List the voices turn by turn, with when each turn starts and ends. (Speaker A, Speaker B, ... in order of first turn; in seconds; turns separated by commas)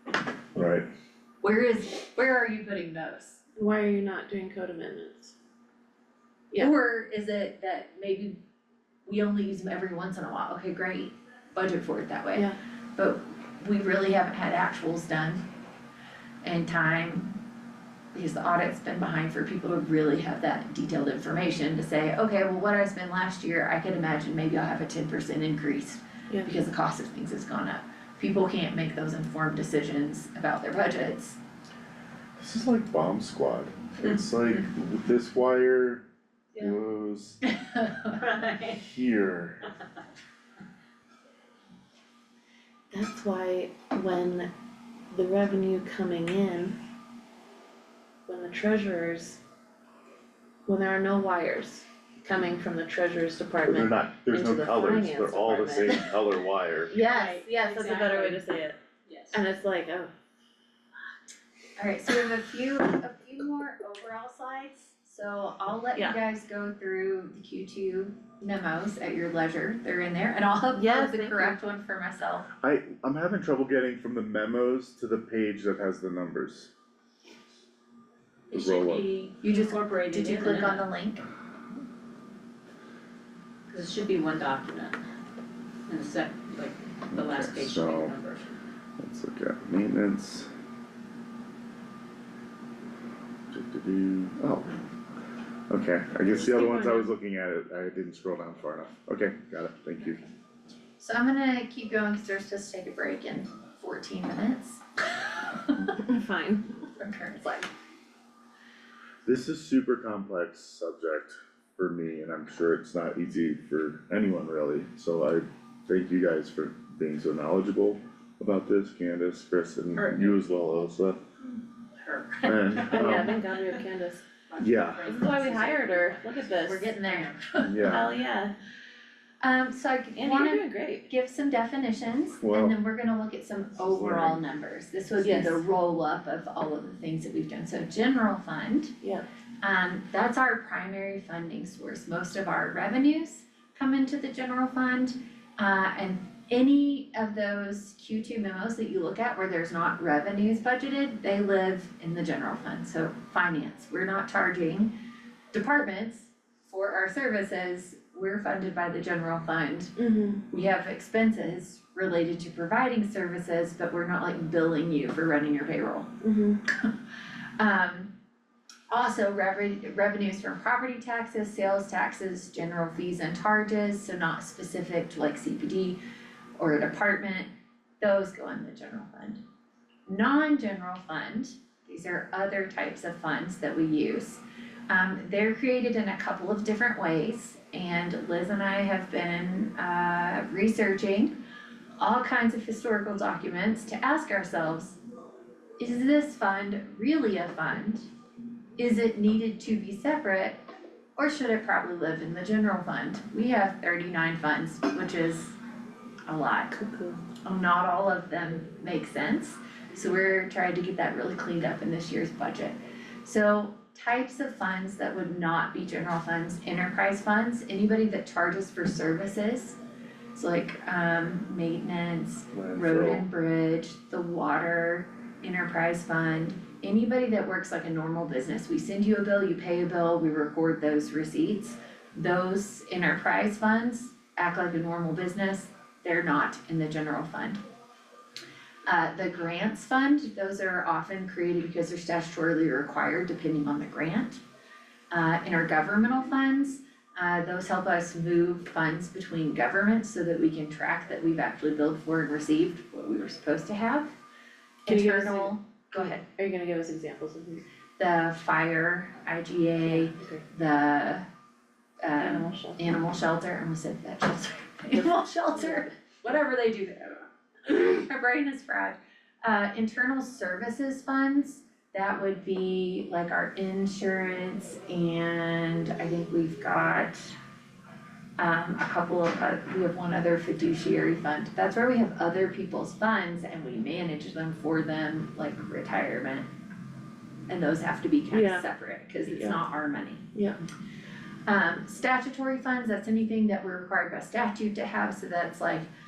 Speaker A: 0.6-0.8, Speaker B: 1.4-3.4, Speaker C: 3.5-5.3, Speaker B: 6.5-8.4, Speaker B: 9.1-15.4, Speaker B: 16.4-17.4, Speaker B: 18.1-31.4, Speaker A: 32.4-36.0, Speaker A: 36.6-37.4, Speaker B: 37.4-38.2, Speaker D: 38.1-38.8, Speaker A: 38.6-39.6, Speaker C: 42.9-44.5, Speaker C: 45.1-46.8, Speaker C: 48.3-49.4, Speaker C: 50.7-56.0, Speaker A: 53.6-56.9, Speaker C: 56.9-58.8, Speaker D: 56.9-58.4, Speaker D: 59.1-59.4, Speaker C: 59.3-60.1, Speaker B: 61.8-72.5, Speaker C: 70.8-71.6, Speaker A: 72.6-76.7, Speaker D: 78.5-80.9, Speaker A: 78.5-79.1, Speaker B: 79.4-81.2, Speaker D: 83.7-85.0, Speaker D: 85.9-88.5, Speaker A: 87.1-88.2, Speaker A: 89.0-90.5, Speaker A: 93.5-94.7, Speaker A: 95.7-100.2, Speaker B: 101.0-104.8, Speaker C: 105.8-106.7, Speaker B: 106.9-107.7, Speaker A: 109.2-121.2, Speaker D: 120.0-120.3, Speaker D: 122.0-123.8, Speaker A: 122.5-123.3, Speaker C: 122.9-124.3, Speaker D: 124.4-127.4, Speaker A: 124.6-125.1, Speaker C: 125.1-127.0, Speaker B: 126.7-128.1, Speaker A: 127.6-128.1, Speaker C: 127.8-128.6, Speaker B: 129.4-138.9, Speaker C: 130.2-131.1, Speaker A: 132.4-132.8, Speaker A: 133.8-134.4, Speaker C: 135.2-135.6, Speaker B: 139.6-154.9, Speaker B: 155.5-159.9, Speaker C: 160.0-160.4, Speaker B: 160.5-166.2, Speaker C: 166.2-166.6, Speaker B: 167.6-168.1, Speaker B: 168.9-176.0, Speaker B: 176.6-177.5, Speaker B: 178.0-179.4, Speaker B: 180.1-191.3, Speaker B: 192.0-195.0, Speaker B: 195.8-198.1, Speaker B: 198.8-200.6, Speaker B: 201.2-205.6, Speaker B: 206.3-206.7, Speaker C: 206.7-207.2, Speaker B: 207.4-219.8, Speaker B: 220.3-237.6, Speaker A: 222.5-223.2, Speaker B: 238.9-244.4, Speaker B: 245.1-254.1, Speaker B: 254.8-256.2, Speaker C: 254.9-257.6, Speaker B: 258.0-261.2, Speaker C: 259.9-260.4, Speaker B: 262.0-277.4, Speaker C: 262.2-262.8, Speaker B: 278.4-286.5, Speaker B: 287.5-290.2, Speaker C: 288.3-288.6, Speaker C: 289.3-289.6, Speaker B: 291.5-295.9